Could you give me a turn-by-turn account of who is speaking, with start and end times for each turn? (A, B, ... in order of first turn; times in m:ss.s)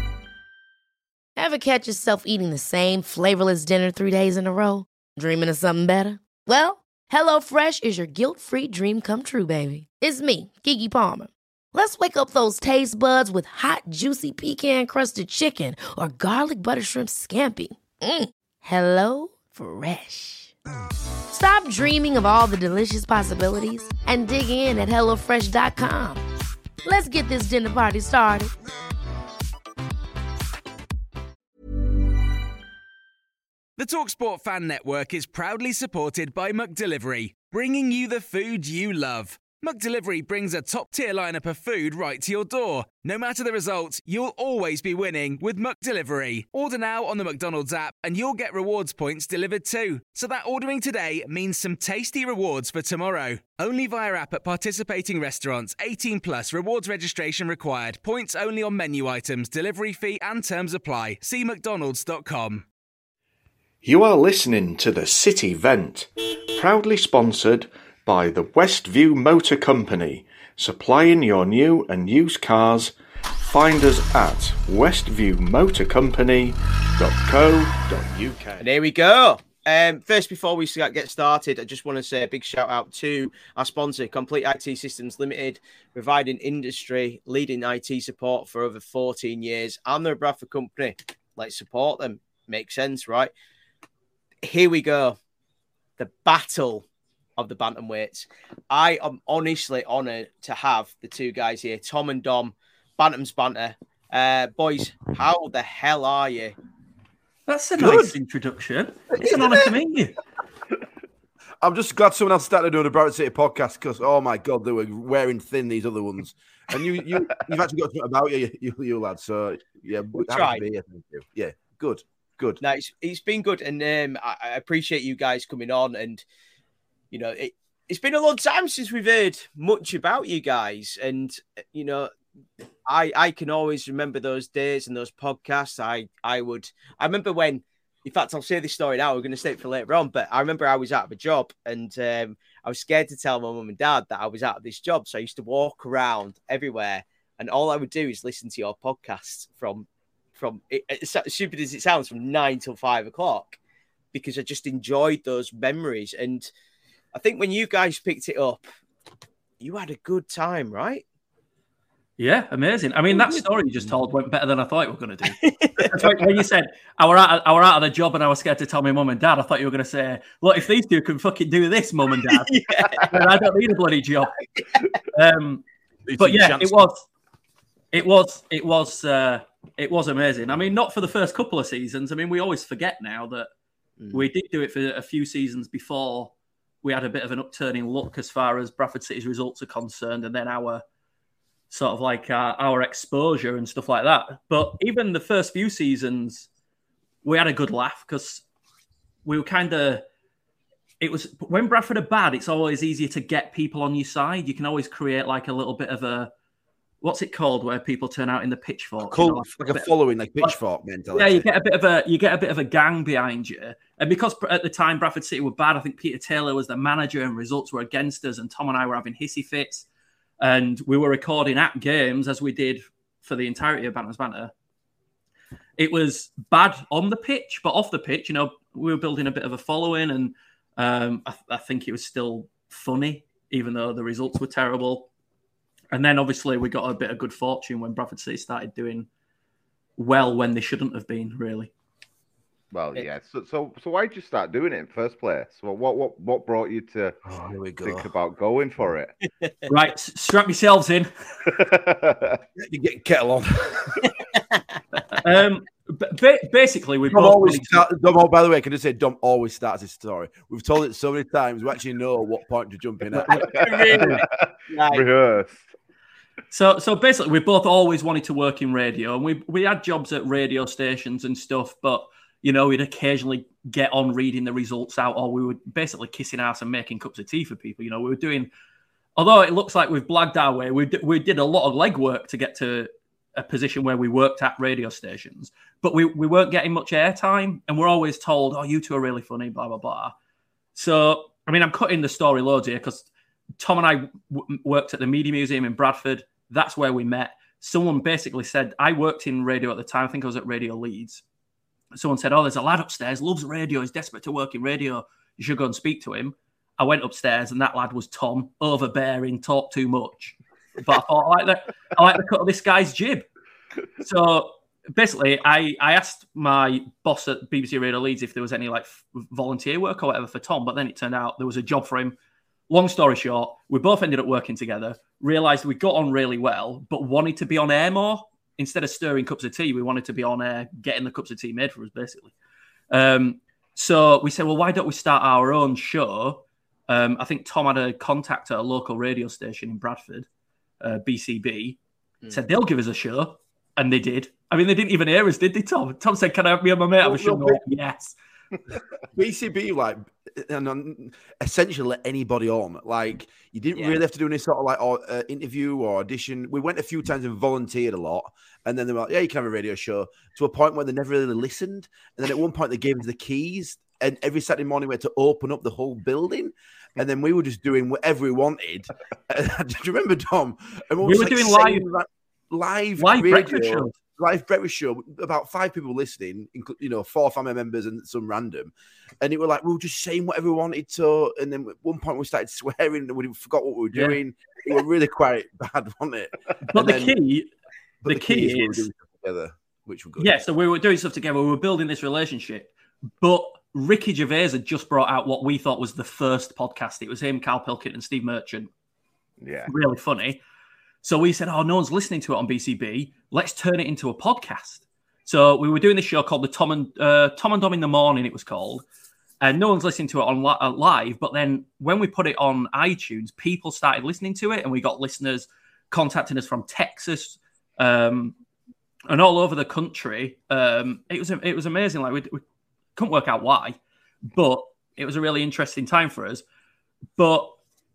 0:01.4-0:20.5 A
0:21.3-0:26.2 A
0:26.8-0:28.5 A
0:33.8-1:02.6 B
1:03.8-1:12.9 C
1:13.5-1:18.6 C
1:18.6-1:33.3 D
1:34.4-1:35.2 D
1:36.0-1:36.8 D
1:37.4-1:46.5 D
1:47.5-1:50.1 E
1:47.8-1:48.1 F
1:49.1-1:49.8 F
1:51.6-2:02.6 F
2:00.2-2:00.6 D
2:02.6-2:06.2 D
2:07.1-2:12.1 D
2:12.9-2:33.6 D
2:34.1-2:36.5 D
2:37.1-2:38.6 D
2:39.6-2:41.0 D
2:42.2-2:54.4 E
2:45.4-2:46.0 D
2:52.3-2:53.1 D
2:55.1-2:55.6 E
2:56.0-2:56.8 F
2:56.2-2:57.0 E
2:57.9-3:03.5 E
3:04.1-3:10.8 E
3:11.7-3:16.5 E
3:17.2-3:18.4 E
3:19.2-3:20.0 E
3:21.0-3:26.3 E
3:27.0-3:30.6 E
3:29.1-3:31.5 F
3:31.1-3:39.8 E
3:40.4-3:44.5 E
3:45.8-3:55.1 E
3:55.9-3:59.1 E
4:00.0-4:01.7 E
4:02.7-4:07.2 G
4:07.2-4:08.1 F
4:07.8-4:09.1 G
4:09.7-4:11.1 E
4:11.4-4:12.4 G
4:12.6-4:14.1 F
4:15.1-4:17.8 E
4:17.1-4:24.1 F
4:23.1-4:23.4 E
4:23.3-4:25.1 D
4:23.8-4:25.7 G
4:26.5-4:38.5 E
4:39.2-4:50.1 E
4:50.7-4:53.1 E
4:53.6-5:01.2 E
5:01.9-5:13.2 E
5:14.0-5:22.2 E
5:22.7-5:32.3 E
5:32.9-5:40.3 E
5:40.8-5:41.8 E
5:42.3-5:48.2 E
5:47.0-5:47.8 F
5:49.1-6:27.2 F
5:53.8-5:54.0 D
6:11.0-6:11.9 E
6:13.0-6:13.9 E
6:23.9-6:24.2 E
6:26.7-6:27.5 E
6:28.0-6:30.4 F
6:28.1-6:28.9 E
6:30.2-6:38.7 E
6:39.4-6:39.7 G
6:39.7-6:40.4 E
6:41.0-6:48.8 E
6:49.4-6:58.3 E
6:59.1-7:02.4 E
7:03.0-7:03.8 E
7:04.3-7:06.4 E
7:07.2-7:07.5 E